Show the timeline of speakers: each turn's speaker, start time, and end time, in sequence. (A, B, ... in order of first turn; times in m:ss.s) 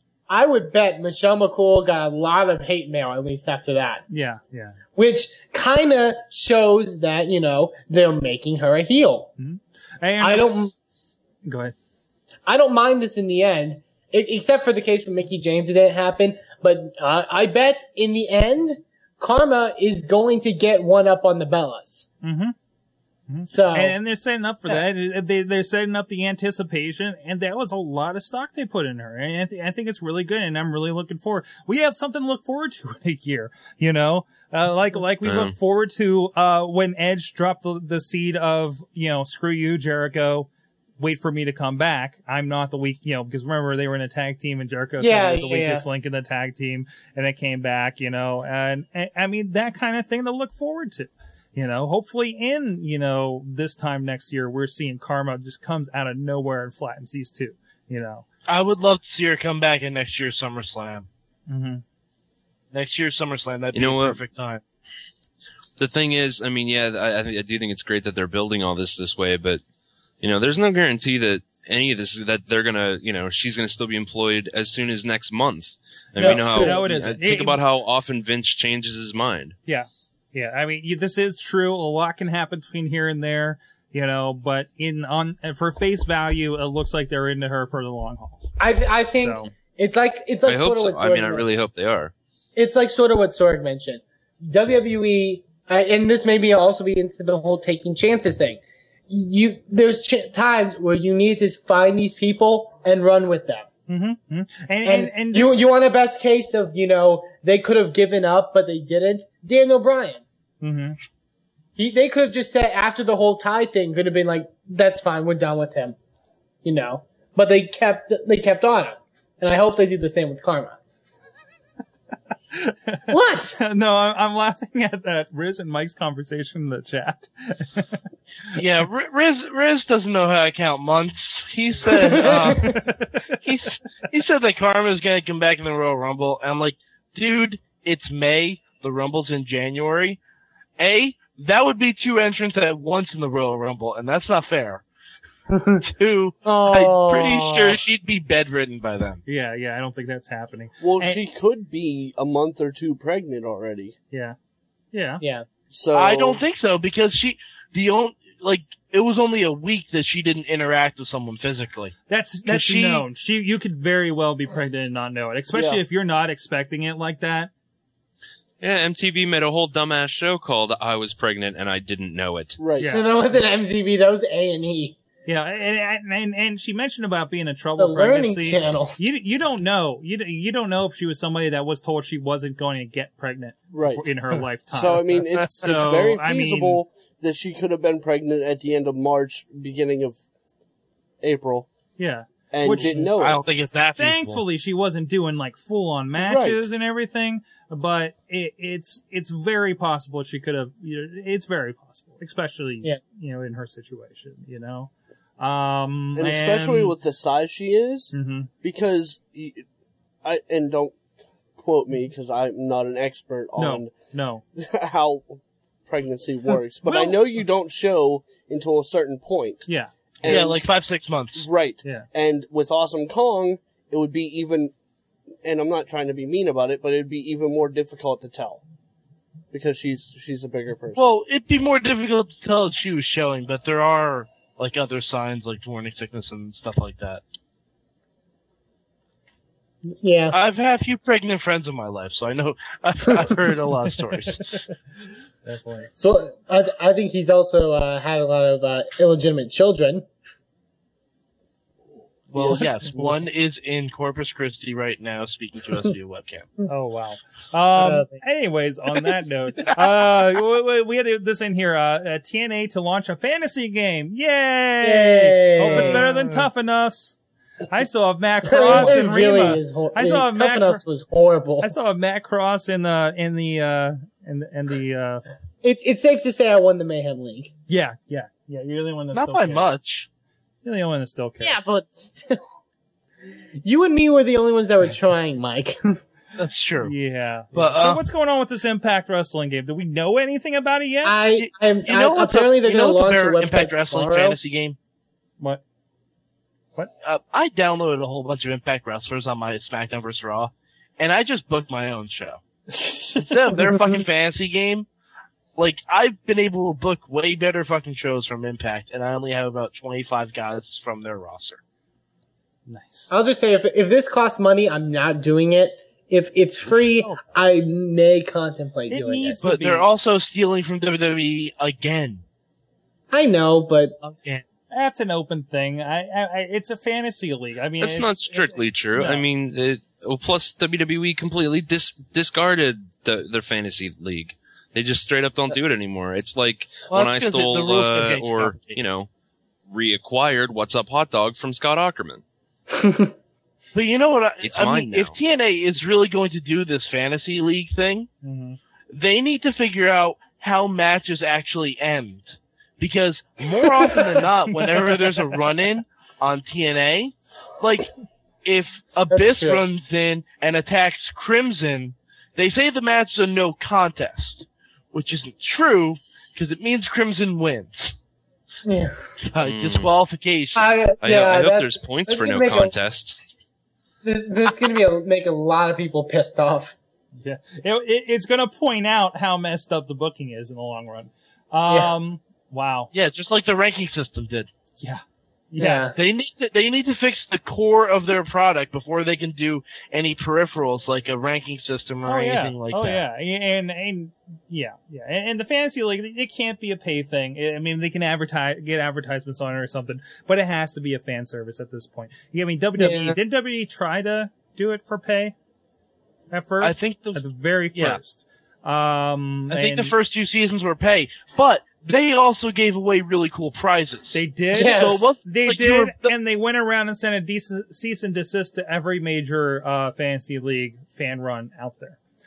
0:00.3-0:04.0 A
0:04.1-0:04.8 B
0:05.0-0:09.3 A
0:09.4-0:10.7 B
0:10.2-0:10.7 A
0:11.5-0:11.7 B
0:12.5-0:22.1 A
0:22.2-0:22.6 B
0:23.3-0:58.2 B
0:23.5-0:24.0 A
0:35.2-0:35.5 C
0:45.0-0:45.8 A
0:58.5-1:01.1 D
1:01.5-1:01.8 B
1:02.7-1:04.6 D
1:03.7-1:04.2 C
1:05.8-1:09.6 C
1:10.2-1:19.6 C
1:16.2-1:16.9 A
1:16.2-1:17.6 B
1:19.7-1:28.4 B
1:28.6-1:31.5 A
1:29.2-1:29.5 B
1:30.4-1:32.1 C
1:32.6-1:43.7 A
1:43.9-1:45.6 B
1:44.8-1:50.2 A
1:50.6-1:51.0 B
1:51.8-1:56.0 A
1:56.6-2:00.8 A
2:02.5-2:07.9 B
2:03.1-2:03.6 A
2:08.6-2:20.2 D
2:12.3-2:12.8 A
2:12.5-2:13.1 B
2:20.8-2:24.8 D
2:25.5-2:25.8 A
2:25.8-2:29.2 D
2:26.4-2:27.7 A
2:29.3-2:31.2 B
2:30.8-2:34.0 E
2:34.9-2:35.2 B
2:35.2-2:35.5 A
2:35.7-2:36.4 E
2:35.9-2:41.9 D
2:42.1-2:47.5 B
2:42.5-2:43.0 D
2:45.5-2:45.8 E
2:48.6-2:52.6 C
2:52.6-2:52.9 E
2:52.8-2:53.1 B
2:52.9-2:55.0 A
2:55.3-3:06.8 B
2:57.8-2:59.0 A
3:03.7-3:04.1 E
3:04.7-3:10.2 E
3:11.2-3:11.7 E
3:12.0-3:13.1 B
3:12.5-3:13.4 E
3:13.2-3:14.4 D
3:14.0-3:27.0 B
3:16.2-3:16.7 E
3:26.2-3:29.6 E
3:28.1-3:28.5 B
3:30.2-3:31.0 E
3:31.6-3:33.9 E
3:33.6-3:34.4 B
3:34.6-3:39.7 E
3:36.8-3:37.4 B
3:40.2-3:40.7 E
3:40.2-3:41.5 D
3:41.4-3:44.7 E
3:45.4-3:48.6 E
3:49.5-3:51.1 E
3:50.9-3:57.2 D
3:59.9-4:00.4 A
4:00.3-4:04.6 D
4:05.5-4:05.9 B
4:06.0-4:10.1 A
4:12.3-4:16.5 D
4:12.5-4:13.2 B
4:16.7-4:27.2 B
4:17.8-4:18.2 A
4:24.8-4:26.1 A
4:27.7-4:30.8 B
4:28.4-4:31.7 A
4:31.6-4:35.2 B
4:35.6-4:37.5 A
4:37.7-4:39.7 B
4:39.1-4:40.1 D
4:40.6-4:41.6 B
4:41.4-4:42.4 A
4:43.6-4:46.0 A
4:46.4-4:46.9 D
4:46.8-4:51.2 B
4:47.5-4:48.0 D
4:51.0-4:54.4 A
4:51.4-4:54.8 D
4:57.0-5:02.4 D
5:02.8-5:03.3 B
5:03.2-5:04.9 D
5:05.6-5:11.6 D
5:12.7-5:13.1 B
5:13.1-5:19.4 A
5:18.9-5:19.9 B
5:19.4-5:22.2 D
5:23.1-5:24.0 A
5:24.0-5:24.4 D
5:24.7-5:29.3 B
5:27.8-5:39.1 C
5:36.9-5:38.8 D
5:39.7-5:42.2 C
5:42.7-5:43.1 A
5:43.7-5:48.1 D
5:44.4-5:45.2 C
5:48.2-5:48.6 B
5:48.9-5:52.2 D
5:52.8-5:57.9 D
5:58.4-6:07.8 D
5:59.1-5:59.6 A
6:08.6-6:09.0 A
6:09.2-6:10.8 D
6:09.4-6:09.9 C
6:10.6-6:12.7 A
6:11.0-6:13.3 C
6:14.0-6:16.8 A
6:17.2-6:22.9 B
6:21.7-6:22.0 A
6:22.9-6:24.5 D
6:24.8-6:25.9 B
6:25.6-6:26.0 A
6:26.0-6:33.0 D
6:32.0-6:45.4 B
6:42.8-6:43.2 A
6:46.3-6:50.0 B
6:46.6-6:47.2 D
6:47.7-6:48.0 D
6:49.5-6:56.1 D
6:54.1-7:02.0 B
6:54.5-6:55.2 A